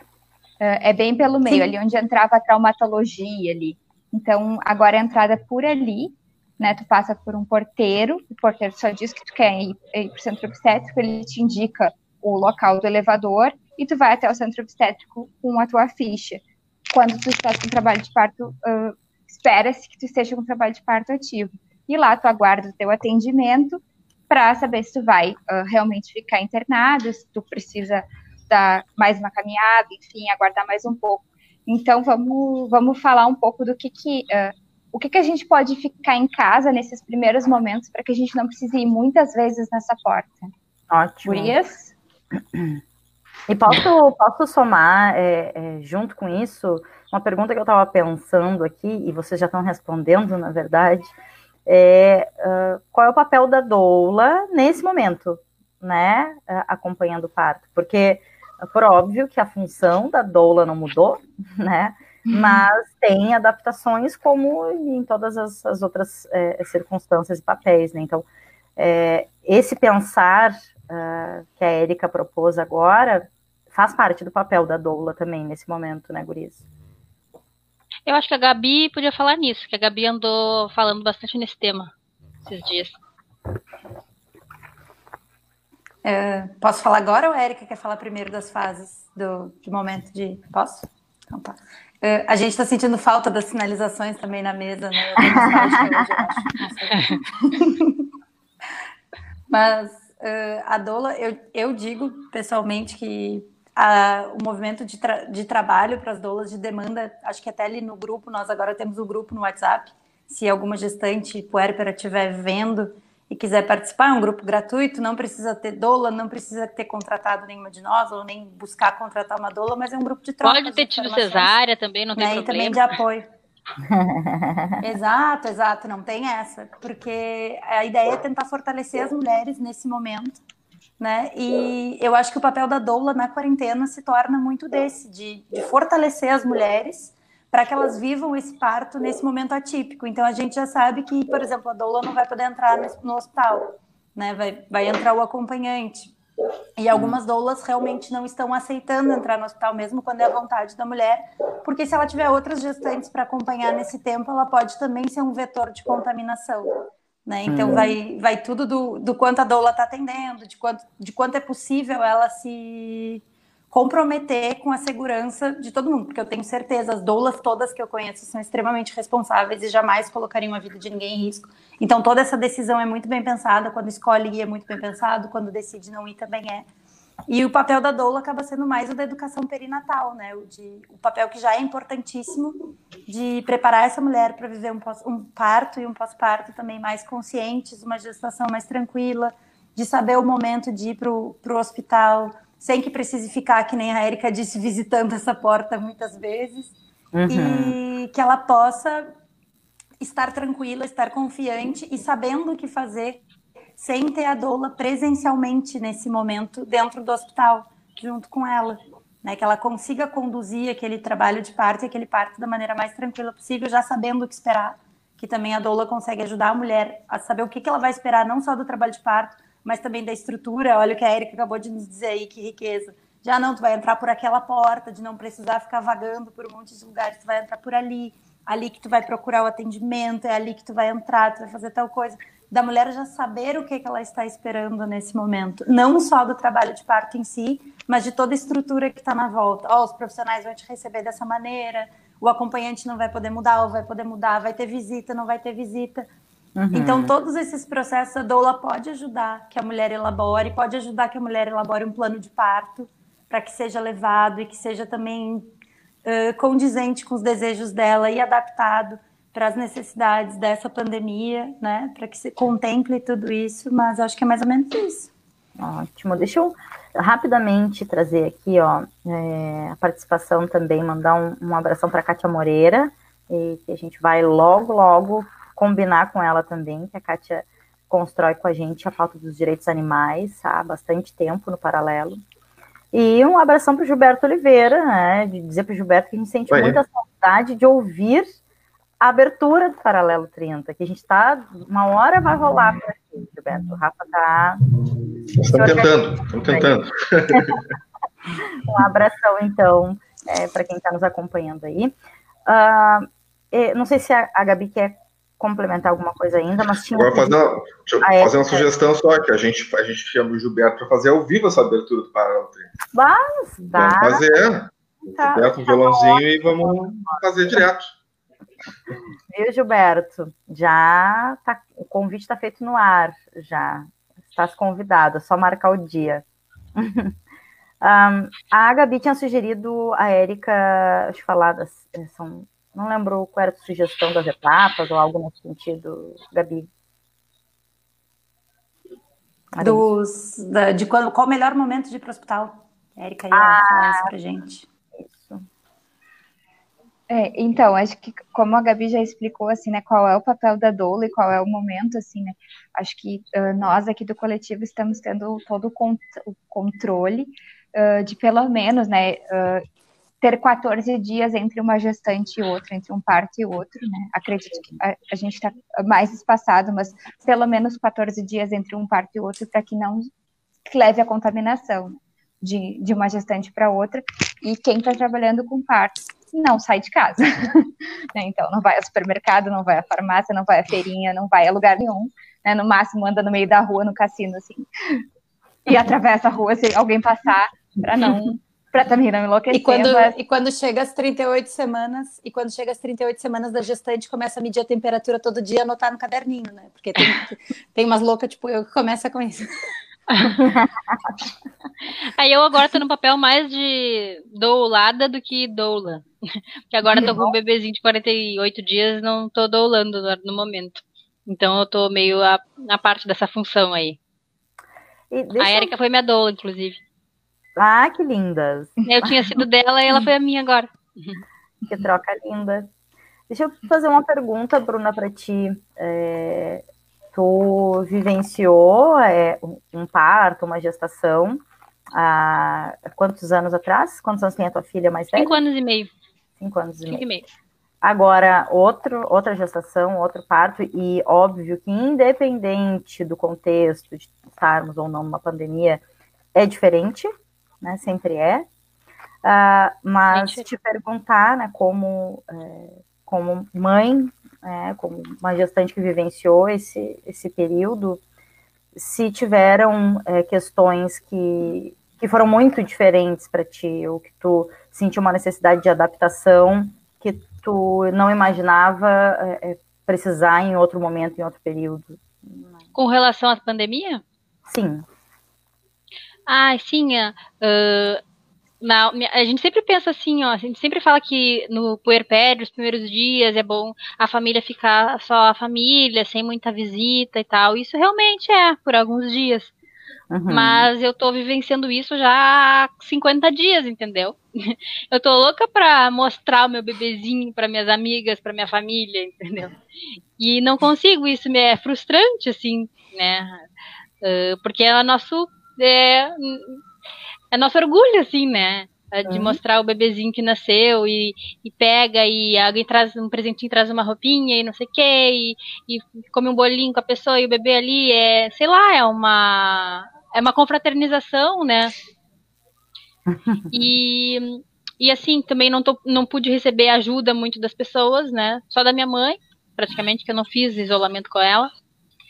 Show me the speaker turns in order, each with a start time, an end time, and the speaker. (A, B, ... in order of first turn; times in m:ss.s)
0:00.6-0:40.4 A
0:01.5-0:01.7 B
0:40.9-0:41.5 C
0:41.2-0:41.9 A
0:42.5-0:42.8 C
0:43.5-0:51.1 C
0:51.7-1:08.3 C
1:02.3-1:02.7 A
1:08.8-1:16.6 C
1:18.1-1:21.9 D
1:22.4-1:23.0 D
1:26.0-1:37.9 B
1:35.2-1:36.5 C
1:39.5-2:01.5 B
2:00.4-2:03.0 D
2:02.2-2:03.3 B
2:03.8-2:04.8 C
2:04.8-2:10.4 B
2:11.0-2:26.1 B
2:26.8-2:36.7 B
2:26.9-2:27.2 C
2:37.3-2:56.7 B
2:37.5-2:38.0 C
2:57.3-3:16.8 B
3:17.1-3:17.8 C
3:17.3-3:19.1 B
3:20.0-3:23.2 B
3:23.8-4:06.1 B
4:06.6-4:07.1 C
4:06.7-4:15.5 B
4:16.0-4:25.1 B
4:25.6-4:42.2 C
4:42.9-4:48.4 C
4:46.5-4:46.8 E
4:49.0-4:54.6 C
4:55.4-4:57.7 E
4:55.5-4:55.9 C
4:56.4-4:56.7 C
4:58.6-5:01.9 C
5:02.5-5:07.4 C
5:07.0-5:12.7 E
5:08.0-5:08.7 C
5:12.9-5:14.2 C
5:13.7-5:17.9 E
5:15.1-5:17.6 C
5:19.3-5:26.2 C
5:26.8-5:27.2 C
5:27.8-5:36.7 C
5:39.5-5:39.9 C
5:39.6-5:44.6 B
5:43.3-5:44.1 C
5:45.0-5:45.4 C
5:47.1-5:59.6 A
6:00.2-6:10.1 A
6:10.6-6:24.7 A
6:25.7-6:30.1 A
6:29.5-6:39.6 B
6:40.4-6:40.7 C
6:42.0-6:46.1 D
6:46.7-6:54.0 D
6:46.9-6:47.3 C
6:55.1-6:55.7 C
6:55.4-6:56.8 D
6:57.6-6:59.4 C
6:58.9-7:01.2 D
7:01.7-7:02.7 C
7:03.3-7:11.4 C
7:11.9-7:15.4 C
7:15.2-7:15.9 D
7:16.4-7:17.0 C
7:16.9-7:17.2 D
7:17.8-7:25.8 C
7:26.4-7:27.1 C
7:27.6-7:28.5 C
7:29.2-7:38.0 C
7:30.1-7:30.5 D
7:38.8-7:52.6 C
7:52.8-7:54.0 D
7:54.5-7:54.8 C
7:56.3-7:58.0 D
7:58.6-8:09.5 D
8:10.1-8:10.7 C
8:10.3-8:19.6 D
8:20.2-8:23.4 D
8:24.0-8:26.6 D
8:27.3-8:41.7 D
8:29.1-8:29.4 C
8:43.1-8:43.5 C
8:43.5-8:51.5 D